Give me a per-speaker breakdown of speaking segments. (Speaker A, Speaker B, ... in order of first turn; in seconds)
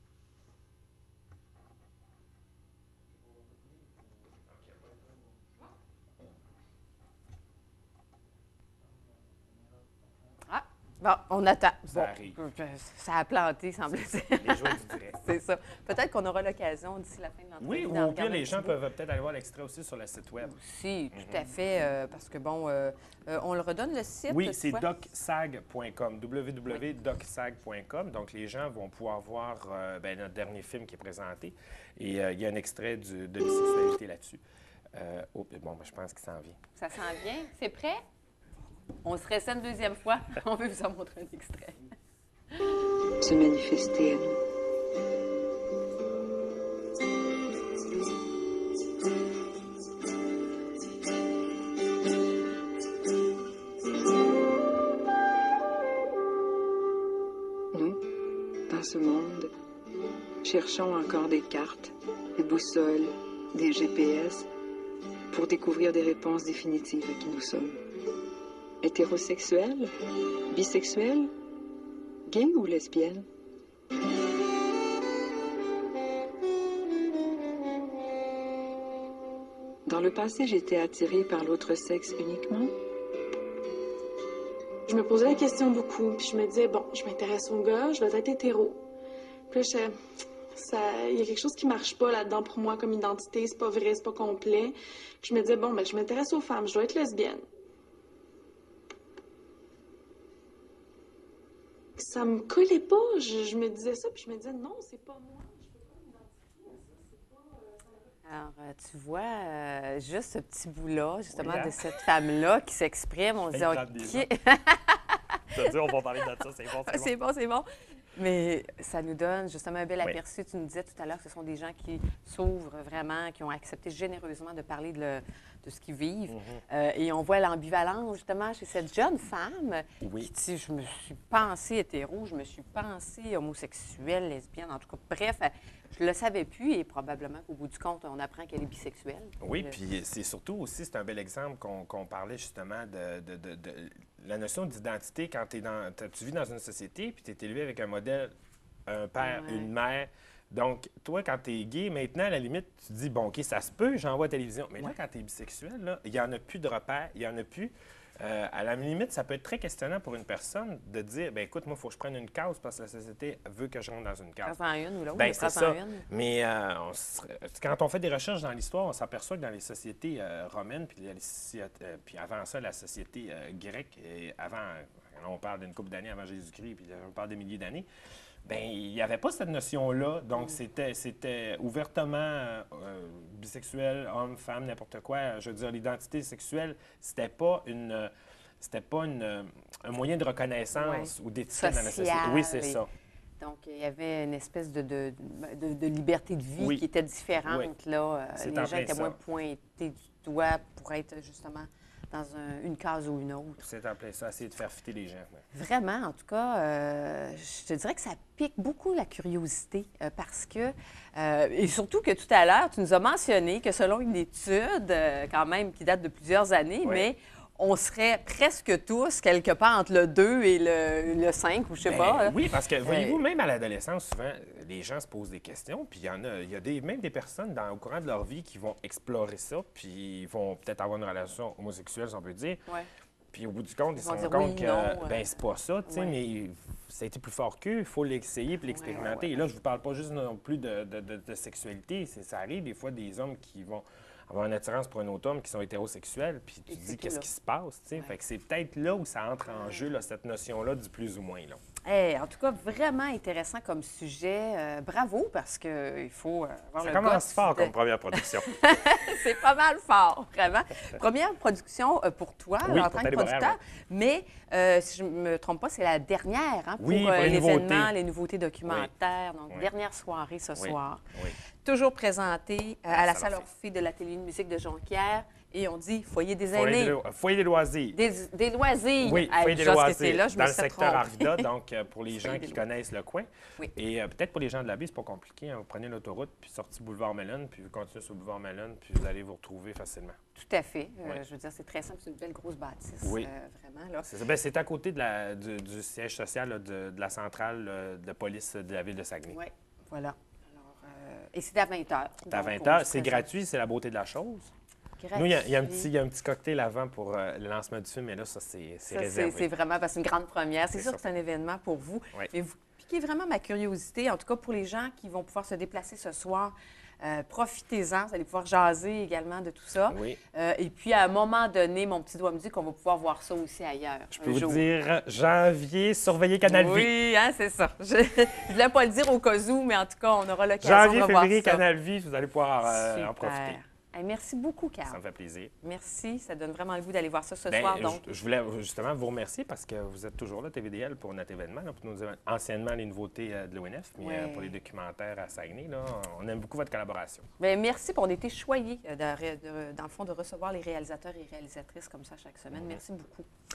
Speaker A: 10.5-18.8, 20.4-24.9, 36.8-38.0, 39.0-41.8, 42.5-42.8, 108.2-115.8, 116.8-139.8, 149.2-149.7, 164.4-166.1, 190.8-192.8, 193.4-203.6, 205.5-223.2, 234.0-235.2, 235.9-236.2, 238.7-239.3, 246.7-247.3, 251.9-271.0, 271.6-277.0, 277.9-281.5, 282.1-282.6, 290.4-294.1, 299.3-303.3, 305.0-305.9, 308.9-324.6, 326.4-331.6, 332.6-335.0, 335.6-338.1, 344.0-344.5, 347.4-353.3
Speaker B: 11.9-12.4, 14.1-15.2, 17.6-20.6, 21.1-21.4, 24.3-34.4, 35.0-36.6, 111.3-111.8, 113.5-114.3, 115.5-117.2, 126.3-126.6, 130.0-130.3, 139.4-148.3, 148.9-164.6, 165.2-177.9, 178.4-192.9, 196.6-196.8, 197.4-197.7, 198.4-199.2, 203.6-205.4, 216.8-217.1, 221.8-232.6, 233.3-251.6, 256.8-258.5, 262.6-263.6, 266.8-267.9, 270.6-271.4, 272.9-273.5, 276.5-278.0, 279.0-290.2, 293.0-293.3, 294.0-299.4, 302.3-304.5, 305.1-309.5, 310.7-311.0, 319.9-320.2, 324.1-326.9, 330.6-333.6, 334.9-335.5, 337.5-347.3, 352.5-352.8
Speaker C: 43.2-44.4, 57.7-58.0, 58.7-59.5, 60.4-64.5, 65.3-67.8, 68.8-69.9, 70.5-71.3, 72.3-73.3, 79.9-82.7
Speaker D: 84.9-88.8, 89.5-89.9, 90.5-97.4, 102.0-105.9